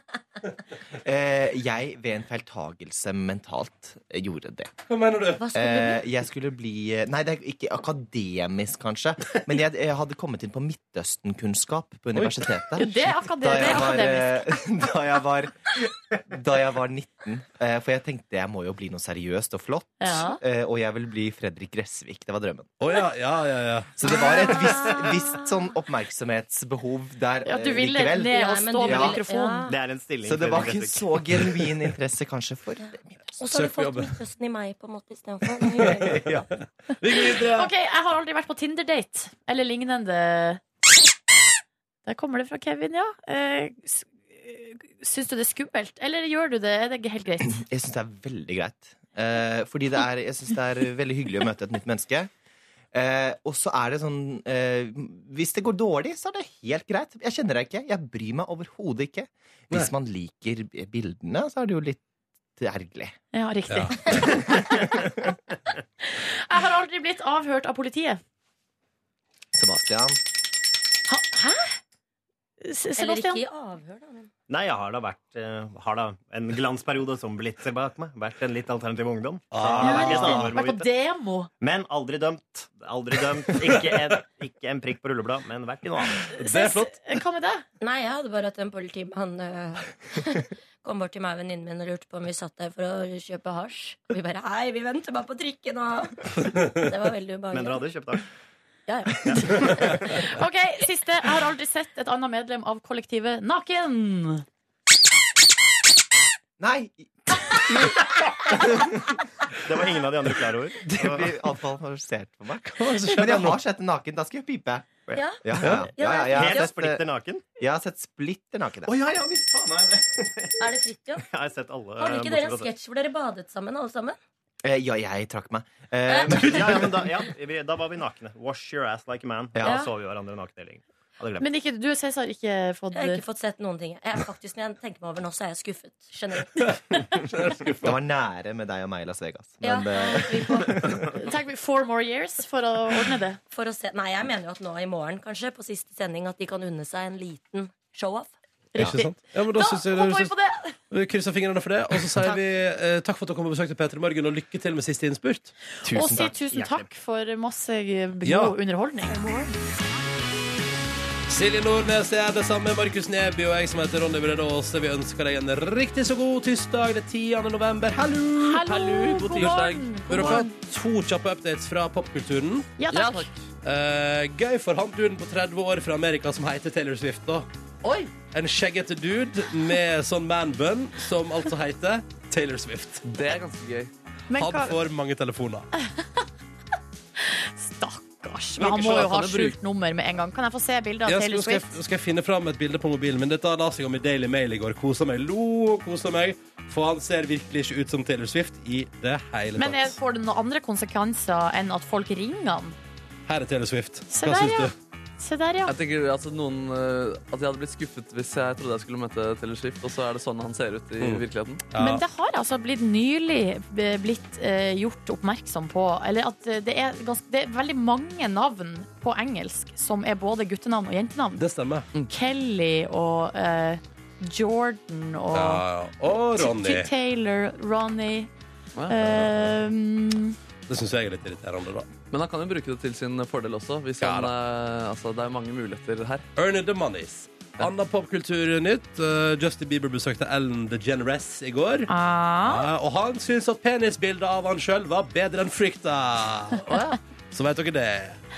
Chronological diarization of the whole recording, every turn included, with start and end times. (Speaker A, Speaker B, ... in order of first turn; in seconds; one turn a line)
Speaker A: 1.0-4.8
Speaker B: 4.9-5.5
Speaker C: 5.4-6.0
Speaker A: 5.5-22.7
Speaker B: 12.1-12.5
Speaker D: 12.8-14.6
Speaker D: 20.0-20.4
Speaker B: 22.8-24.2
Speaker A: 24.0-29.2
Speaker C: 24.2-25.4
Speaker D: 27.4-29.7
Speaker C: 28.2-29.8
Speaker E: 29.7-31.0
Speaker A: 30.2-33.3
Speaker C: 33.4-36.3
Speaker B: 33.5-34.1
Speaker A: 35.8-36.5
Speaker B: 36.9-37.7
Speaker D: 37.2-40.6
Speaker D: 42.0-47.6
Speaker A: 47.4-52.3
Speaker A: 52.9-62.0
Speaker A: 62.6-63.2
Speaker D: 63.3-64.8
Speaker B: 63.7-64.2
Speaker D: 66.0-68.2
Speaker A: 69.5-70.2
Speaker D: 71.1-71.8
Speaker D: 72.6-73.4
Speaker C: 73.0-74.3
Speaker E: 74.5-80.9
Speaker B: 79.5-80.5
Speaker D: 79.8-81.5
Speaker E: 81.6-86.2
Speaker D: 86.3-87.7
Speaker B: 86.3-87.0
Speaker C: 87.8-97.8
Speaker E: 97.5-98.2
Speaker C: 98.9-100.0
Speaker D: 100.1-104.4
Speaker A: 106.6-108.9
Speaker E: 109.6-111.3
Speaker A: 110.8-117.0
Speaker B: 112.6-113.6
Speaker C: 115.1-116.8
Speaker B: 115.6-115.9
Speaker E: 116.3-117.4
Speaker A: 117.6-119.0
Speaker E: 118.9-120.7
Speaker C: 120.6-121.3
Speaker E: 121.2-122.7
Speaker C: 122.0-124.2
Speaker A: 124.6-127.0
Speaker C: 126.1-126.4
Speaker E: 126.3-131.4
Speaker A: 129.5-129.8
Speaker C: 129.6-129.9
Speaker D: 131.4-133.2
Speaker C: 132.9-136.7
Speaker B: 137.3-138.0
Speaker A: 137.8-141.1
Speaker C: 139.6-140.9
Speaker D: 141.1-143.4
Speaker C: 143.5-148.3
Speaker D: 148.7-150.8
Speaker B: 148.8-150.3
Speaker B: 150.9-155.5
Speaker A: 155.8-156.4
Speaker D: 155.8-159.4
Speaker E: 156.5-156.8
Speaker B: 158.2-158.6
Speaker B: 161.3-172.7
Speaker D: 168.4-170.5
Speaker F: 168.7-169.8
Speaker D: 172.8-173.3
Speaker F: 172.9-173.4
Speaker B: 173.6-177.5
Speaker F: 177.8-178.1
Speaker B: 178.1-183.1
Speaker F: 183.0-183.9
Speaker D: 184.3-184.8
Speaker B: 184.3-185.7
Speaker D: 187.2-191.8
Speaker F: 188.6-189.6
Speaker B: 191.1-200.0
Speaker D: 199.6-202.8
Speaker B: 203.2-204.7
Speaker D: 204.1-205.7
Speaker F: 205.7-211.6
Speaker B: 211.0-212.0
Speaker D: 211.8-221.4
Speaker B: 221.4-221.9
Speaker D: 222.1-225.6
Speaker B: 225.3-226.9
Speaker D: 226.3-228.3
Speaker F: 228.8-229.1
Speaker D: 228.9-230.3
Speaker B: 229.0-229.5
Speaker B: 230.7-231.9
Speaker F: 232.1-236.2
Speaker B: 234.0-234.3
Speaker B: 236.3-241.9
Speaker D: 241.9-242.7
Speaker B: 242.4-246.7
Speaker F: 246.7-247.0
Speaker B: 247.3-248.2